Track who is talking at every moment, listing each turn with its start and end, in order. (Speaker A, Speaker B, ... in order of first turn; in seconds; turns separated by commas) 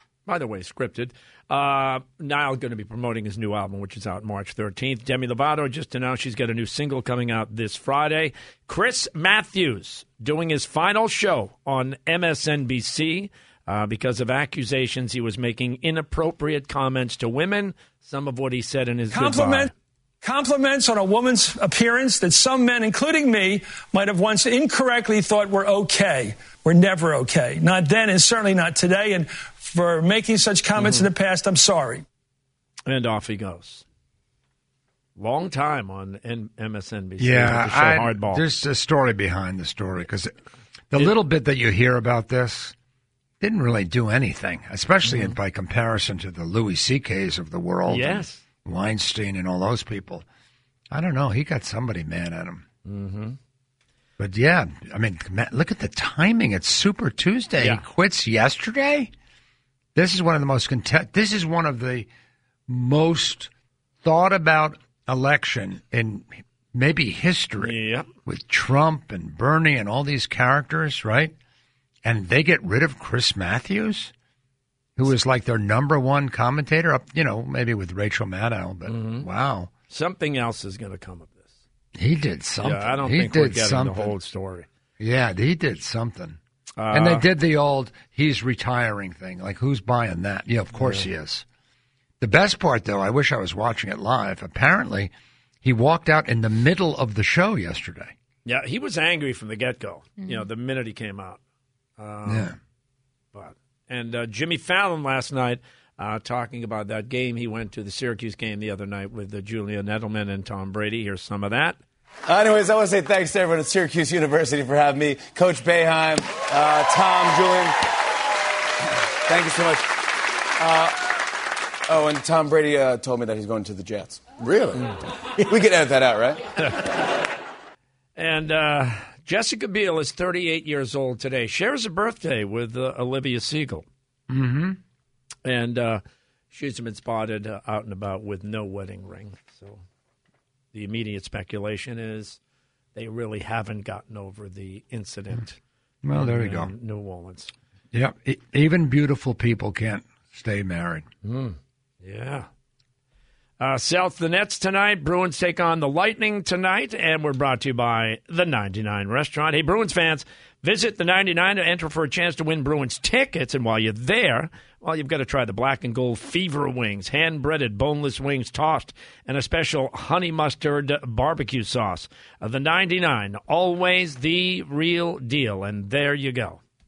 Speaker A: 0.2-19.7, Speaker B: 19.1-19.7, Speaker B: 20.2-32.0, Speaker A: 30.8-31.1, Speaker A: 32.9-33.8, Speaker A: 35.2-38.5, Speaker C: 37.2-40.3, Speaker C: 40.9-42.7, Speaker C: 43.4-50.2, Speaker A: 45.0-45.4, Speaker A: 47.9-48.4, Speaker C: 50.9-52.6, Speaker A: 52.8-53.4, Speaker C: 54.2-59.1, Speaker A: 57.6-57.8, Speaker C: 59.9-62.1, Speaker C: 62.7-63.5, Speaker C: 64.0-71.3, Speaker A: 67.6-68.1, Speaker C: 72.0-74.1, Speaker C: 75.0-79.7, Speaker A: 78.8-79.3, Speaker A: 79.9-81.5, Speaker C: 82.0-84.1, Speaker A: 82.6-84.7, Speaker C: 85.0-86.4, Speaker A: 86.8-87.3, Speaker C: 86.9-91.4, Speaker A: 90.7-91.1, Speaker C: 92.2-98.1, Speaker A: 98.4-101.4, Speaker A: 102.0-102.5, Speaker C: 102.2-102.5, Speaker A: 103.3-111.8, Speaker D: 112.2-117.8, Speaker D: 119.2-119.9, Speaker D: 120.6-120.9, Speaker D: 121.9-124.9, Speaker D: 125.4-126.4, Speaker A: 128.2-133.8, Speaker C: 134.3-134.8, Speaker A: 135.4-139.8, Speaker A: 140.7-142.4, Speaker A: 142.9-145.6, Speaker C: 146.0-146.7, Speaker A: 146.1-147.5, Speaker C: 147.9-151.1, Speaker A: 151.2-152.5, Speaker A: 153.6-176.6